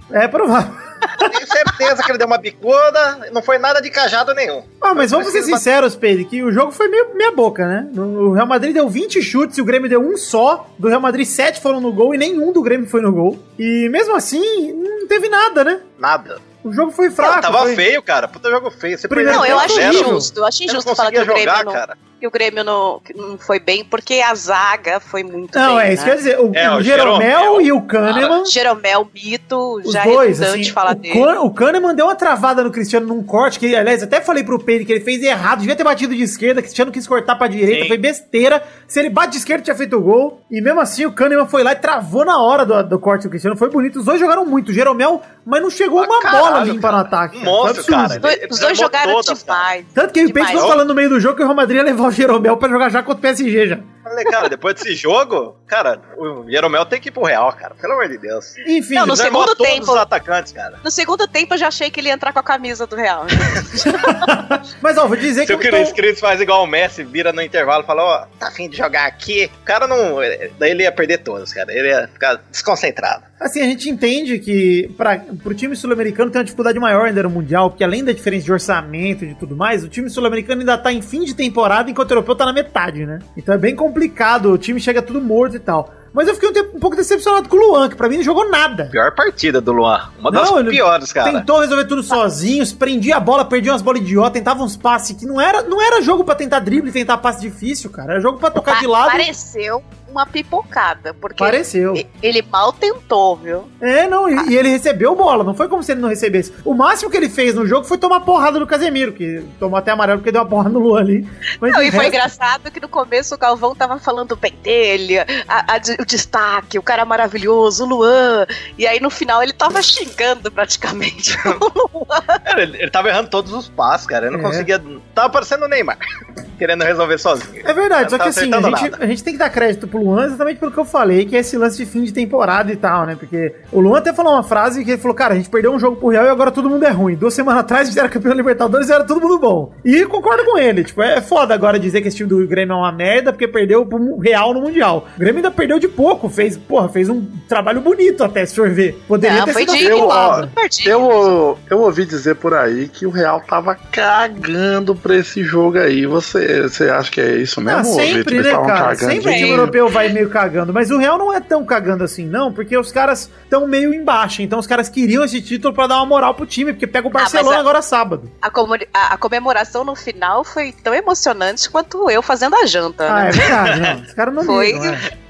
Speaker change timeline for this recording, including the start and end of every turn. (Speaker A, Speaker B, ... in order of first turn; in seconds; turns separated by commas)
Speaker A: 0.1-1.2, Speaker B: 1.2-5.6, Speaker A: 4.8-15.8, Speaker B: 16.0-16.4, Speaker A: 16.6-17.9, Speaker B: 17.2-22.0, Speaker A: 19.1-20.3, Speaker C: 19.3-26.2, Speaker A: 25.5-28.5, Speaker B: 26.5-28.3, Speaker C: 28.4-31.3, Speaker A: 29.9-48.3, Speaker B: 37.7-38.0, Speaker B: 46.0-49.7, Speaker C: 48.2-50.8, Speaker A: 50.0-53.9, Speaker B: 50.5-50.8, Speaker B: 54.1-58.6, Speaker A: 58.6-59.3, Speaker C: 59.0-60.1, Speaker B: 59.1-60.8, Speaker C: 60.8-64.2, Speaker A: 63.9-66.0, Speaker B: 65.5-73.2, Speaker A: 73.4-88.9, Speaker B: 88.9-91.5, Speaker A: 90.3-99.3, Speaker C: 98.6-103.7, Speaker A: 101.4-102.0, Speaker A: 103.8-112.2, Speaker C: 111.6-122.4, Speaker B: 122.5-126.0, Speaker A: 124.3-124.7, Speaker B: 126.6-129.0, Speaker A: 127.6-150.5, Speaker C: 149.2-151.3, Speaker D: 149.8-159.8, Speaker A: 157.7-168.3, Speaker C: 159.2-159.9, Speaker C: 167.1-167.6, Speaker C: 168.4-173.5, Speaker A: 173.1-175.1, Speaker B: 173.5-173.7, Speaker C: 174.4-175.0